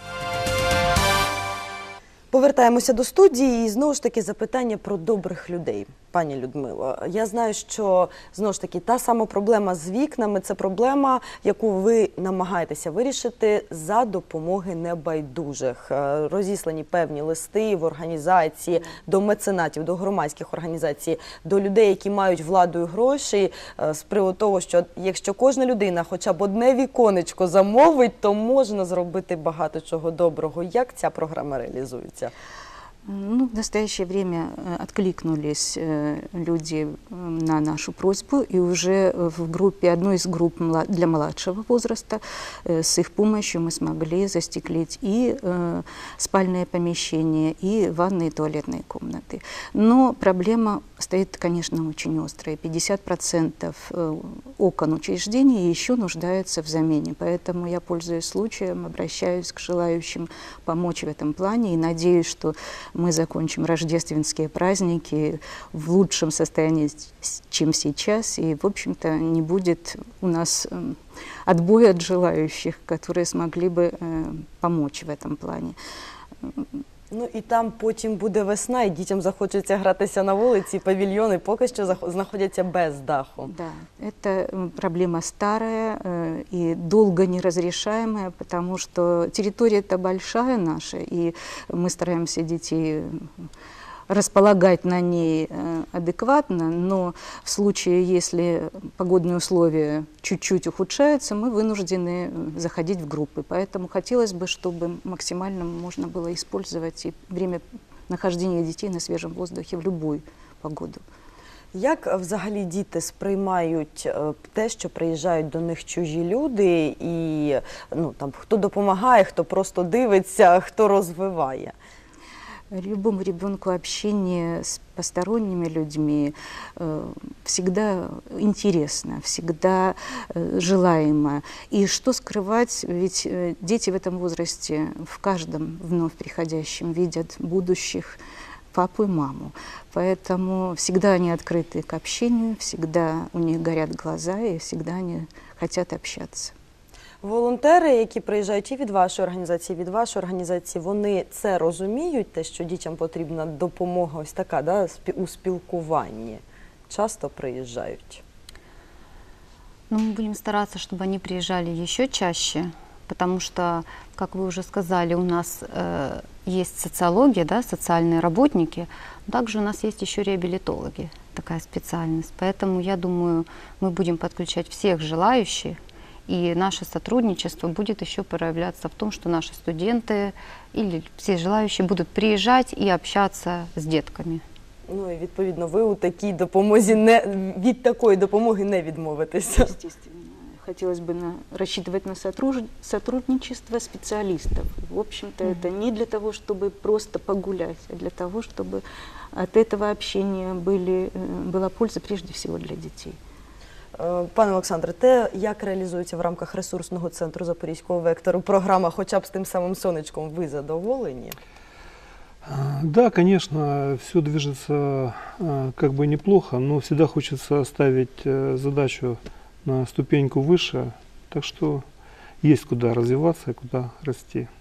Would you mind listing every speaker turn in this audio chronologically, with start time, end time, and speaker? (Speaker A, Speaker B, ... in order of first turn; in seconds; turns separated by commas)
Speaker A: 2.3-32.3, Speaker B: 33.0-75.8, Speaker B: 76.4-76.8, Speaker A: 77.1-83.5, Speaker B: 83.5-93.5, Speaker B: 94.1-111.0, Speaker A: 111.7-121.7, Speaker B: 122.7-138.2, Speaker B: 138.7-146.5, Speaker A: 147.2-158.2, Speaker C: 159.9-184.4, Speaker A: 184.9-189.7, Speaker B: 189.6-198.8, Speaker B: 199.3-203.2, Speaker A: 203.9-211.4, Speaker D: 212.4-221.8, Speaker D: 222.4-224.5